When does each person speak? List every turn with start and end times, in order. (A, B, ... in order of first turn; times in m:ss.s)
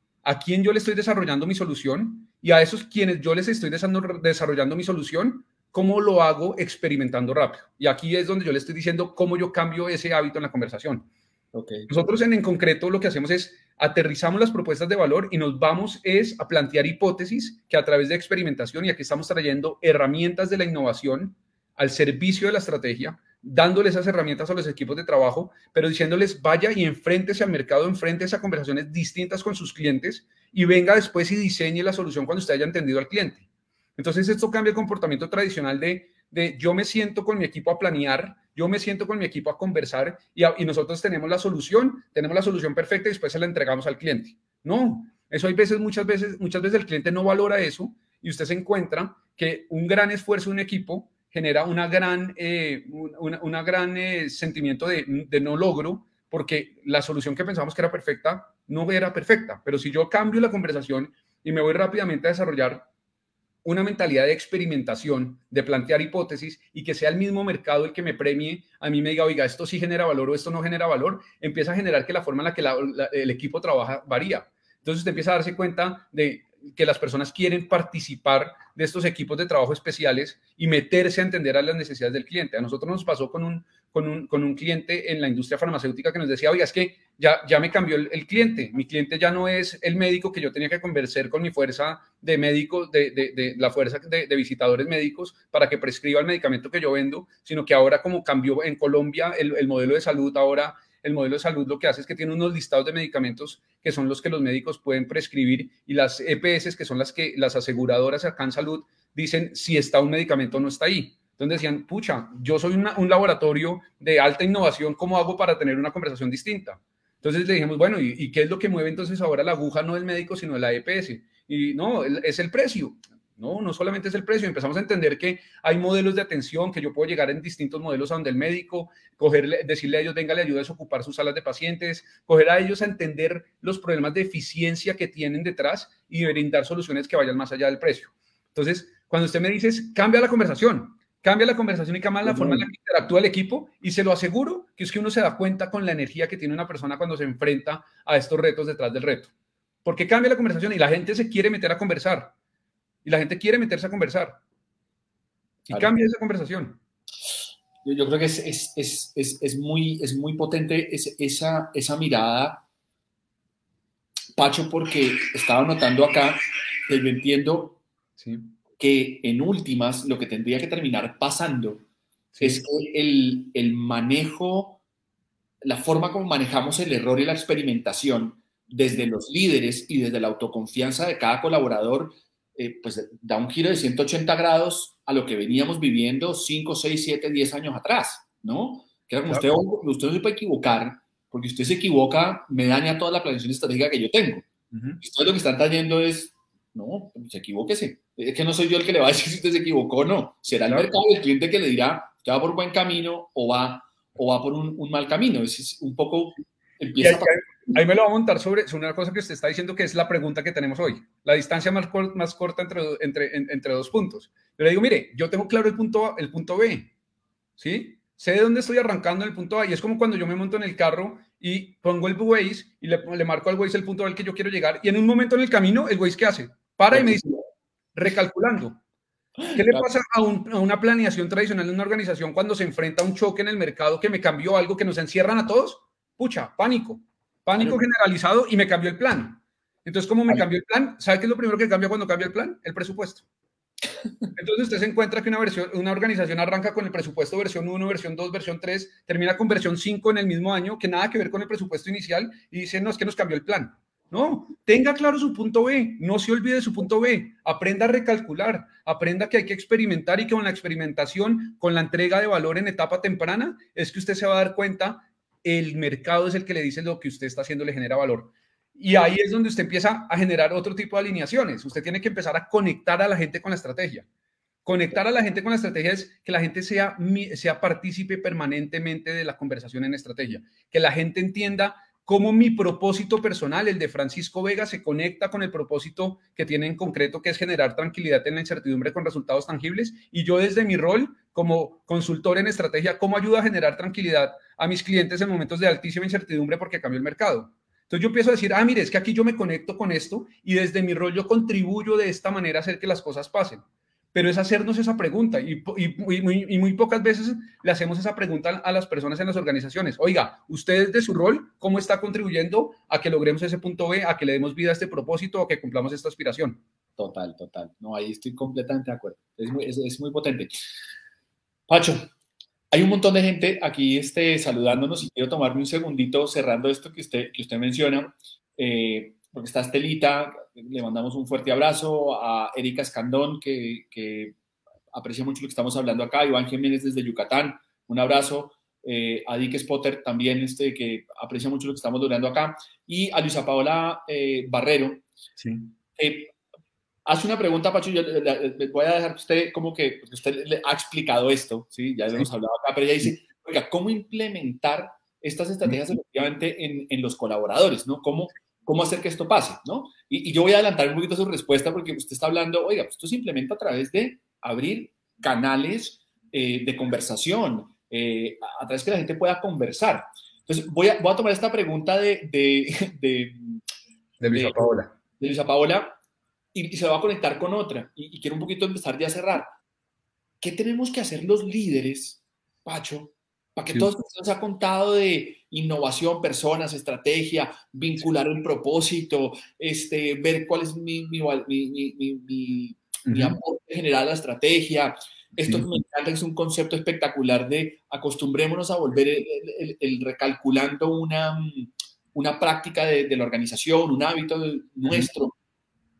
0:00.2-0:11.1 A
0:11.5-0:11.9 B
0:11.9-0:33.4 A
0:34.0-1:02.8 A
1:03.6-2:29.3 A
2:22.2-2:22.7 B
2:29.8-2:32.3 A
2:33.0-2:34.4 A
2:35.7-2:36.8 A
2:37.8-2:42.6 B
2:44.4-2:47.8 B
2:48.2-2:48.5 A
2:48.8-2:51.8 B
2:52.3-2:52.6 A
2:52.4-2:54.8 B
2:55.6-3:14.4 B
3:14.7-3:15.0 A
3:15.0-3:27.7 B
3:27.0-3:36.9 A
3:37.6-3:47.4 A
3:46.9-3:47.2 B
3:47.9-3:48.8 A
3:49.4-3:49.9 B
3:49.5-4:03.2 A
4:04.3-4:34.1 A
4:34.6-5:03.6 A
5:04.1-5:16.6 A
5:17.0-5:20.5 B
5:21.7-5:22.1 B
5:22.7-5:34.3 B
5:34.9-5:45.0 B
5:45.4-5:45.7 A
5:46.0-5:46.3 B
5:47.0-6:13.6 B
6:14.2-6:14.9 A
6:14.3-6:14.6 B
6:15.2-6:16.0 B
6:16.5-6:19.5 B
6:20.4-6:45.3 B
6:33.0-6:33.4 A